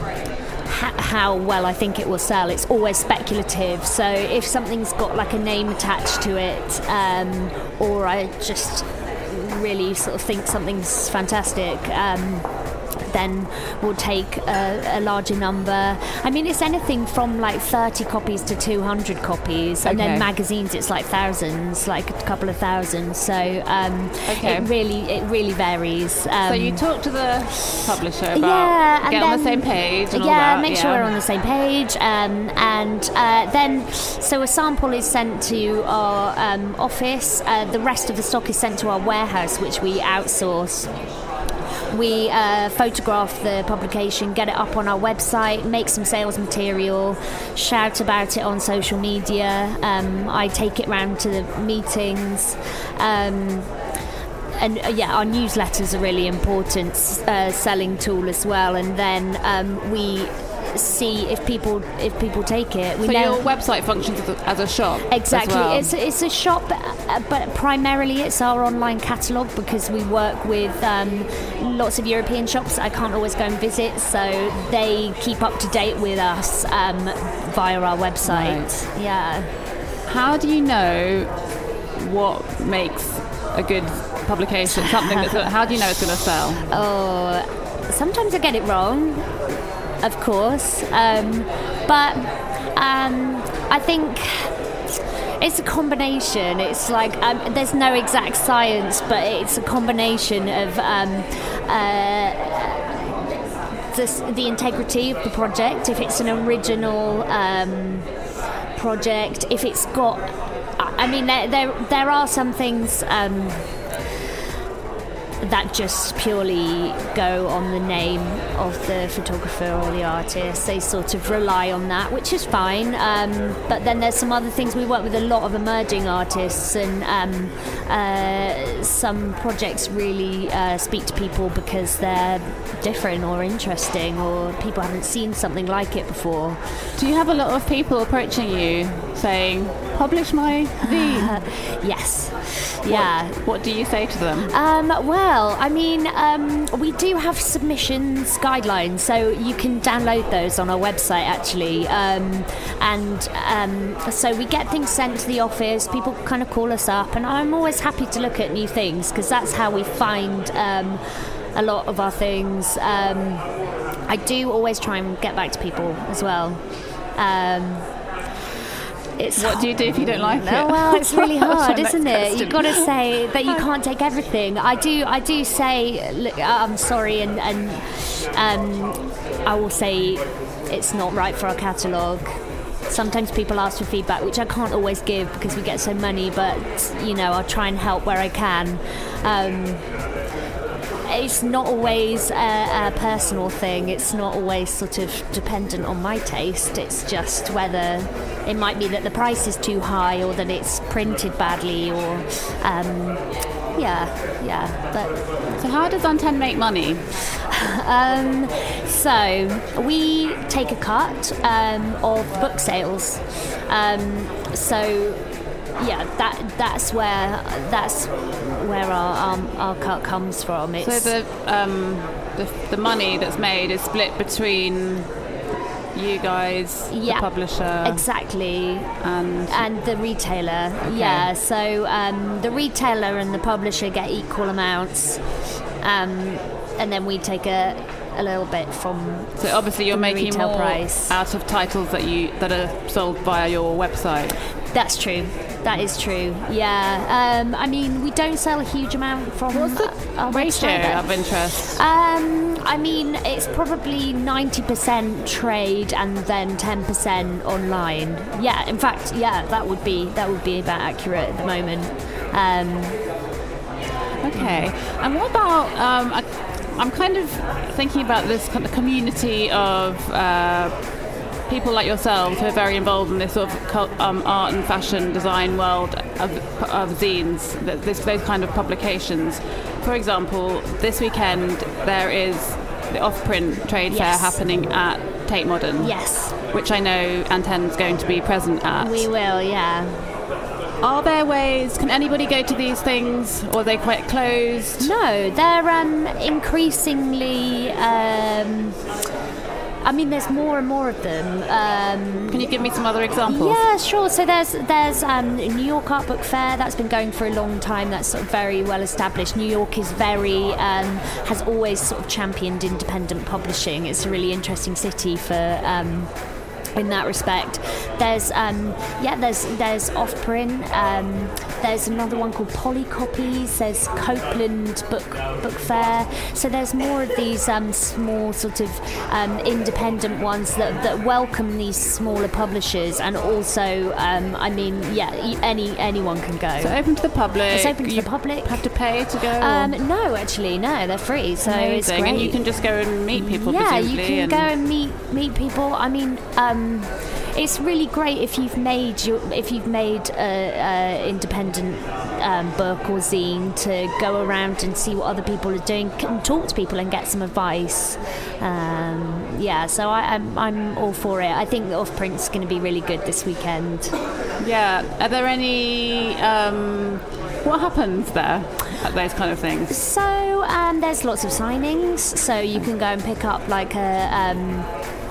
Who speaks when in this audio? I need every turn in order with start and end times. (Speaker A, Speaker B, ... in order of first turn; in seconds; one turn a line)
Speaker A: 0.7-12.5
Speaker A: 13.1-26.8
Speaker B: 19.8-20.3
Speaker B: 24.3-24.7
Speaker B: 26.4-31.1
Speaker A: 28.3-40.9
Speaker A: 41.9-53.7
Speaker A: 54.6-63.5
Speaker B: 63.0-65.9
Speaker A: 65.1-79.5
Speaker B: 78.2-78.7
Speaker B: 80.1-81.3
Speaker B: 82.0-86.7
Speaker A: 84.7-85.5
Speaker A: 86.7-89.3
Speaker A: 90.0-94.5
Speaker A: 95.4-103.2
Speaker A: 103.9-108.1
Speaker A: 108.8-113.6
Speaker A: 115.4-136.6
Speaker B: 137.0-141.4
Speaker A: 140.8-143.5
Speaker B: 142.9-144.5
Speaker A: 144.5-161.0
Speaker A: 161.6-163.4
Speaker A: 164.1-166.6
Speaker A: 167.2-167.9
Speaker A: 169.2-182.3
Speaker B: 169.4-172.9
Speaker A: 182.9-189.8
Speaker A: 191.1-203.2
Speaker A: 203.8-205.2
Speaker B: 205.5-207.0
Speaker A: 207.5-215.2
Speaker A: 215.8-221.2
Speaker B: 220.8-225.1
Speaker B: 225.9-228.1
Speaker A: 226.9-228.9
Speaker B: 229.0-229.7
Speaker A: 229.5-235.3
Speaker B: 230.8-231.3
Speaker A: 235.8-241.2
Speaker B: 239.4-244.4
Speaker A: 244.7-263.0
Speaker B: 249.5-251.8
Speaker B: 264.2-270.9
Speaker A: 264.3-264.7
Speaker B: 271.5-289.1
Speaker A: 283.9-284.4
Speaker A: 285.8-286.4
Speaker A: 288.8-290.1
Speaker B: 290.8-294.9
Speaker A: 294.8-298.8
Speaker A: 299.8-302.6
Speaker B: 302.3-303.6
Speaker A: 303.2-316.1
Speaker A: 316.8-336.8
Speaker B: 336.6-339.8
Speaker A: 337.5-342.4
Speaker B: 341.4-344.5
Speaker A: 343.1-363.9
Speaker B: 364.4-369.8
Speaker A: 369.7-374.7